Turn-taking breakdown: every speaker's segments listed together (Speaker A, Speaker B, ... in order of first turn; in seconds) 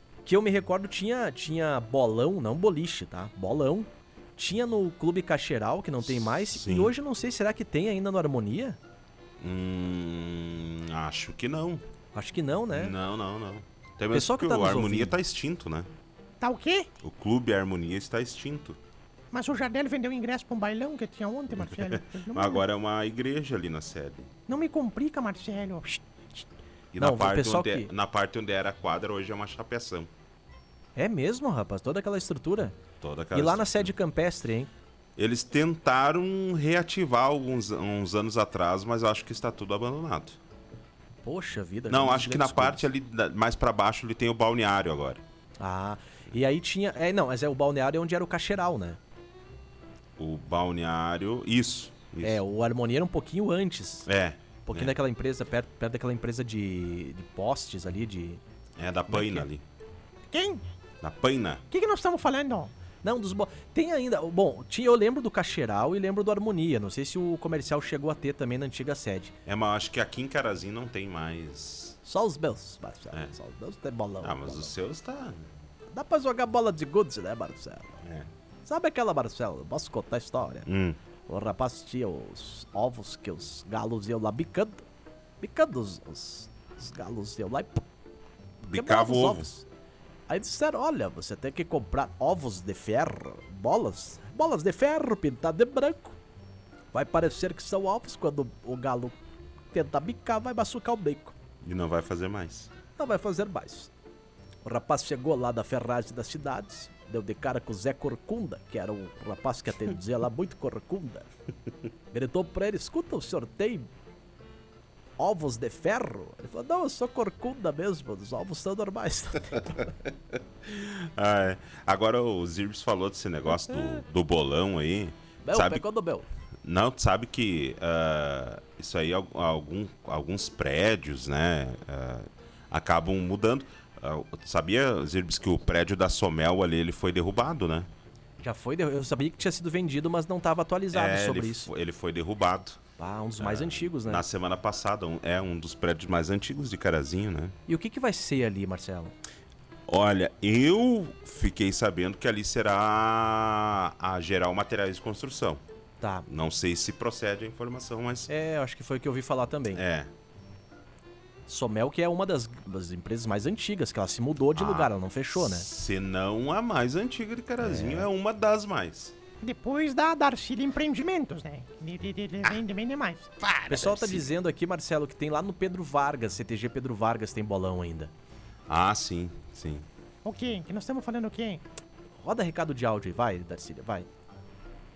Speaker A: 0.2-8.8, 12.1-12.9, 14.1-15.2, 27.0-27.9, 30.9-32.8, 33.3-34.7, 41.2-42.9, 45.6-49.0, 52.2-54.1, 54.6-58.4, 59.1-59.5, 63.0-69.3, 72.0-74.7, 75.9-78.0, 78.6-80.7, 81.3-84.8, 85.4-87.8, 88.6-89.7, 90.3-96.2, 96.9-99.2, 99.7-101.3, 103.0-103.9, 104.6-111.3, 112.1-113.9, 115.2-119.9, 123.7-124.0, 125.4-126.3, 138.4-141.7, 143.0-144.2, 147.7-149.1, 156.0-156.3, 158.3-159.8, 161.5-165.7, 167.6-168.1, 173.7-178.1, 182.2-184.1
Speaker B: 6.5-6.9, 9.4-11.8, 12.7-15.9, 17.0-18.8, 21.6-24.3, 26.9-30.1, 33.0-33.9, 35.2-40.4, 41.9-45.2, 50.2-52.4, 54.1-55.0, 58.8-59.6, 61.0-61.6, 69.5-72.0, 74.2-75.5, 78.0-78.3, 80.7-81.0, 88.6-89.5, 101.6-102.7, 119.7-125.8, 126.6-137.9, 140.9-142.8, 143.4-147.5, 149.9-155.6, 156.3-158.3, 159.7-160.1, 164.5-169.1, 173.4-174.3, 178.7-179.8
Speaker C: 16.4-16.9, 19.3-22.6, 24.5-26.4, 60.3-60.6, 61.7-62.7, 169.4-173.3, 180.2-181.6